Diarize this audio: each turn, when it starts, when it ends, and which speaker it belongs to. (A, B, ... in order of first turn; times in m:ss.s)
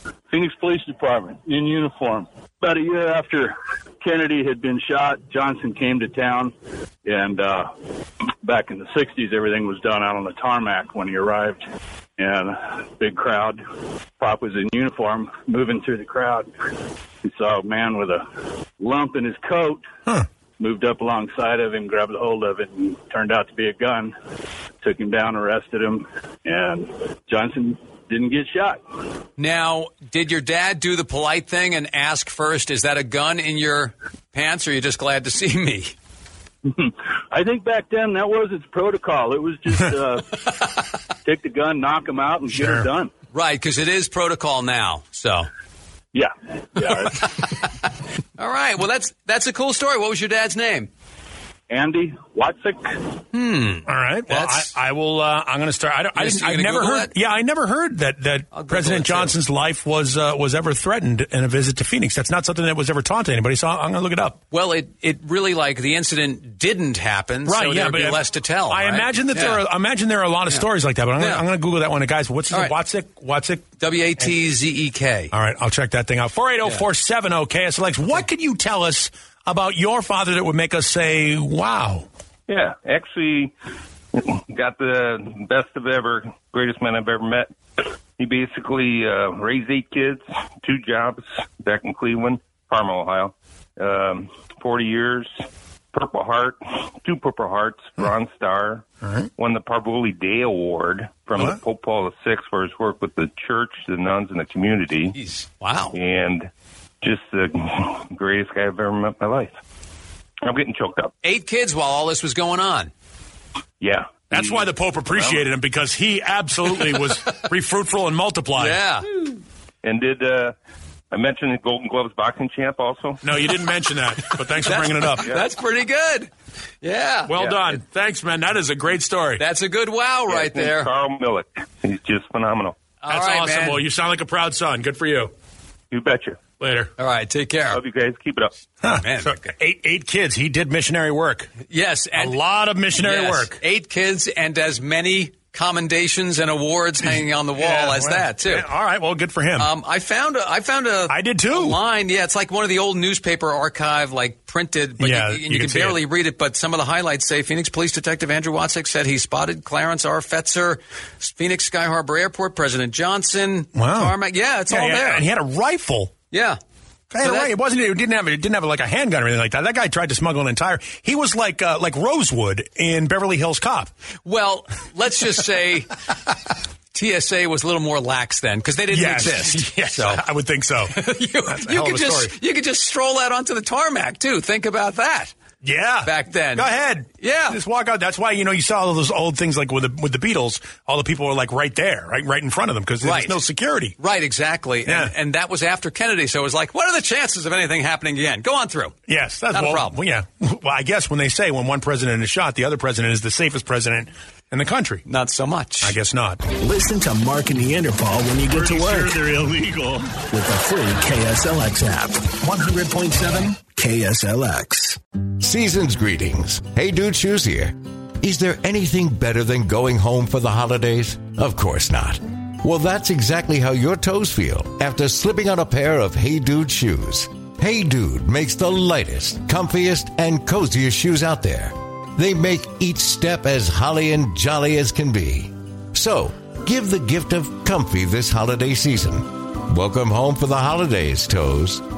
0:00.3-0:06.5 A
0:07.0-0:07.7 A
0:08.4-0:11.6 A
0:12.2-0:13.6 A
0:14.2-0:16.5 A
0:17.2-0:18.2 A
0:18.8-0:19.8 A
0:20.6-0:24.1 A
0:24.8-0:28.8 A
0:29.4-0:35.9 B
0:36.6-0:40.4 A
0:41.2-0:43.1 A
0:42.5-0:42.9 C
0:43.3-0:45.5 B
0:46.1-0:47.3 A
0:47.2-0:47.6 B
0:48.4-0:50.9 B
0:51.7-0:53.0 A
0:53.3-0:54.7 B
0:53.9-1:04.4 C
0:56.2-0:57.1 B
0:58.5-0:59.4 B
1:04.5-1:09.6 B
1:07.4-1:13.7 C
1:11.2-1:11.4 B
1:13.8-1:15.3 B
1:15.3-1:22.1 C
1:22.5-1:23.5 D
1:24.1-1:27.5 D
1:28.2-1:38.9 D
1:39.0-1:39.3 C
1:39.4-1:45.1 D
1:45.1-1:46.0 B
1:45.9-1:46.5 D
1:47.0-1:49.6 D
1:50.4-1:51.1 D
1:51.2-1:52.9 B
1:53.8-1:55.4 D
1:54.3-1:58.8 C
1:58.6-1:59.1 B
1:59.8-2:00.5 D
2:01.1-2:03.2 D
2:03.2-2:05.3 C
2:04.6-2:06.3 B
2:06.8-2:07.6 B
2:07.3-2:09.4 C
2:09.4-2:10.9 B
2:10.3-2:12.8 D
2:13.0-2:13.8 B
2:13.1-2:15.3 C
2:15.9-2:16.4 D
2:16.6-2:16.9 C
2:17.0-2:17.8 B
2:17.7-2:18.5 D
2:18.8-2:21.5 C
2:18.9-2:19.5 B
2:21.7-2:22.4 B
2:22.2-2:23.6 C
2:23.0-2:28.6 B
2:27.0-2:29.7 C
2:29.6-2:45.3 B
2:31.1-2:31.8 C
2:35.0-2:36.0 C
2:43.8-2:44.1 C
2:44.7-2:46.1 C
2:46.3-2:46.6 B
2:47.1-2:53.9 C
2:47.2-2:47.5 B
2:54.2-2:55.9 B
2:56.9-3:00.2 B
2:58.9-3:01.0 C
3:00.9-3:05.3 B
3:01.5-3:02.3 C
3:05.6-3:14.0 C
3:06.0-3:07.6 B
3:13.0-3:13.4 B
3:14.0-3:19.0 B
3:14.9-3:15.1 C
3:19.1-3:25.0 C
3:19.5-3:19.9 B
3:25.1-3:25.9 B
3:25.8-3:26.4 C
3:26.6-3:29.6 E
3:30.2-3:35.0 E
3:35.4-4:01.8 F